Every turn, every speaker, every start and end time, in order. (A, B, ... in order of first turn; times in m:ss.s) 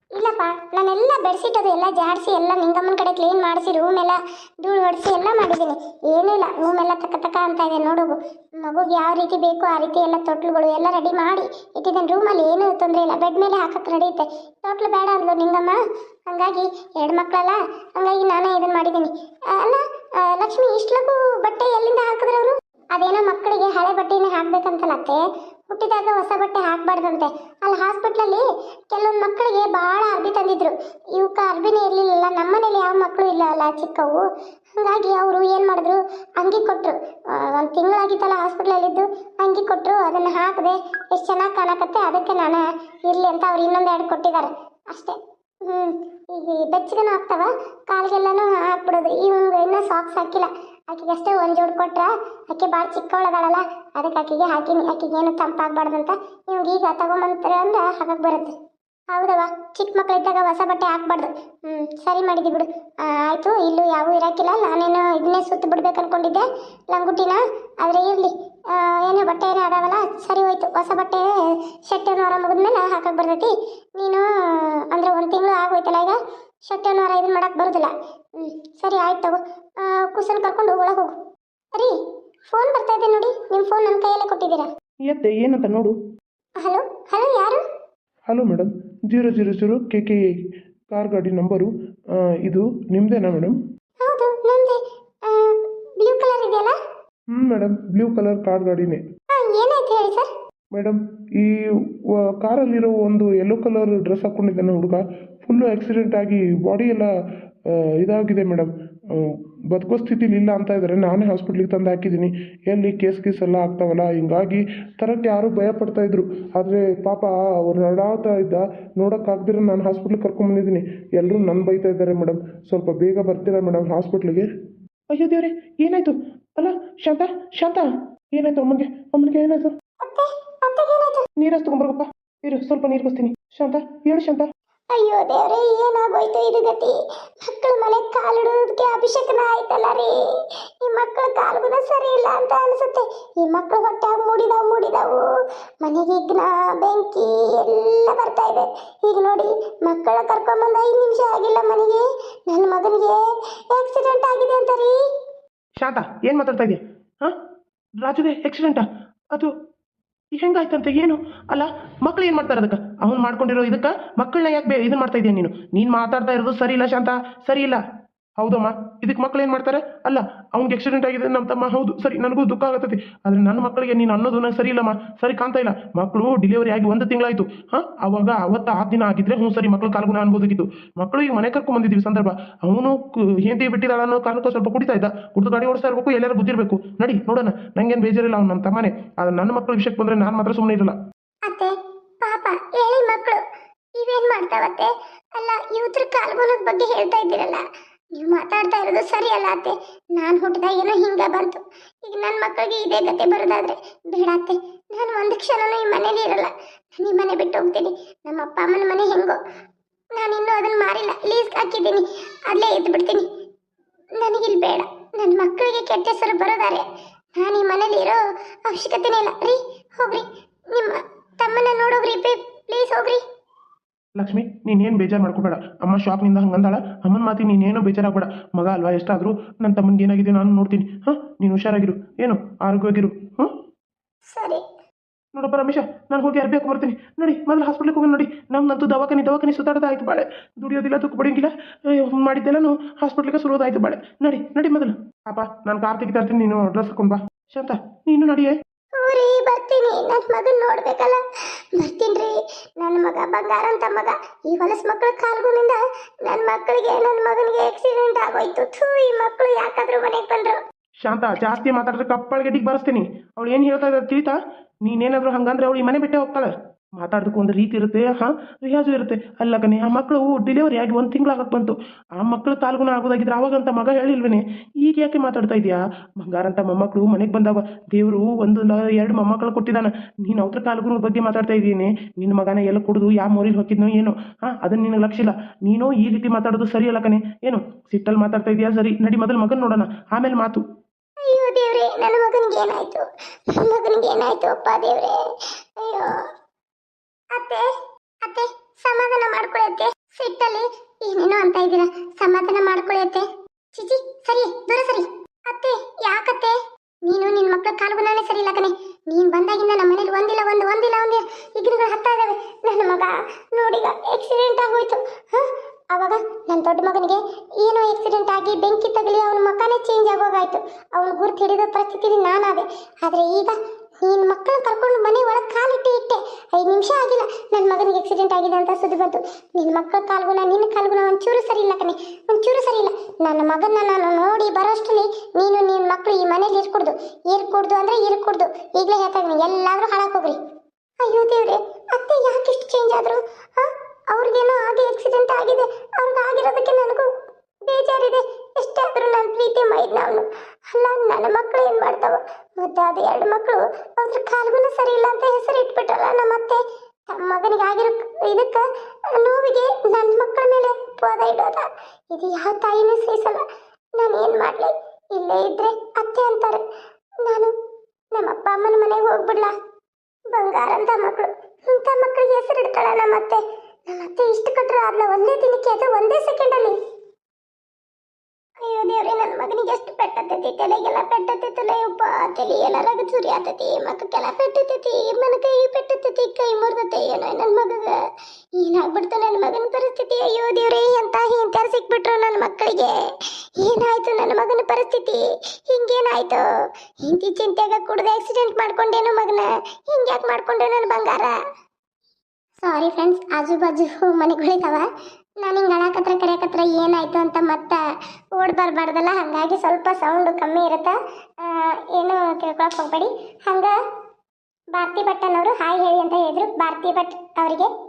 0:00.2-0:58.5 A
0:59.1-1:21.1 A
1:22.5-1:24.7 A
1:25.1-1:25.9 B
1:26.6-1:27.6 A
1:28.3-1:30.3 B
1:30.9-1:31.7 B
1:32.4-1:33.6 B
1:34.0-1:36.7 A
1:37.3-1:39.0 B
1:39.3-1:40.3 A
1:40.7-1:47.1 B
1:47.7-2:04.5 B
2:05.1-2:09.7 B
2:10.0-2:11.2 A
2:11.4-2:14.5 B
2:14.9-2:25.2 A
2:25.8-2:35.0 A
2:35.8-2:37.3 B
2:38.0-2:39.5 B
2:40.3-2:47.8 B
2:48.4-3:10.9 B
3:11.5-3:13.4 A
3:14.0-3:17.6 A
3:18.1-3:29.4 A
3:30.2-3:33.2 A
3:34.2-3:36.8 A
3:37.4-3:43.2 A
3:44.2-3:53.5 B
3:54.3-3:54.6 A
3:55.3-4:08.5 B
4:09.0-4:11.2 A
4:11.8-4:20.6 A
4:21.0-4:50.6 B
4:51.2-4:55.2 A
4:55.8-4:56.2 A
4:57.3-4:57.6 A
4:58.2-5:40.4 A
5:41.0-5:47.1 A
5:47.6-6:03.4 A
6:04.0-6:06.6 A
6:07.2-6:07.5 A
6:08.1-6:09.5 A
6:10.3-6:16.8 A
6:18.6-6:28.0 A
6:28.6-6:36.4 A
6:37.0-6:41.4 A
6:42.6-6:44.8 A
6:45.4-6:47.8 A
6:48.4-6:53.7 A
6:54.7-6:57.7 A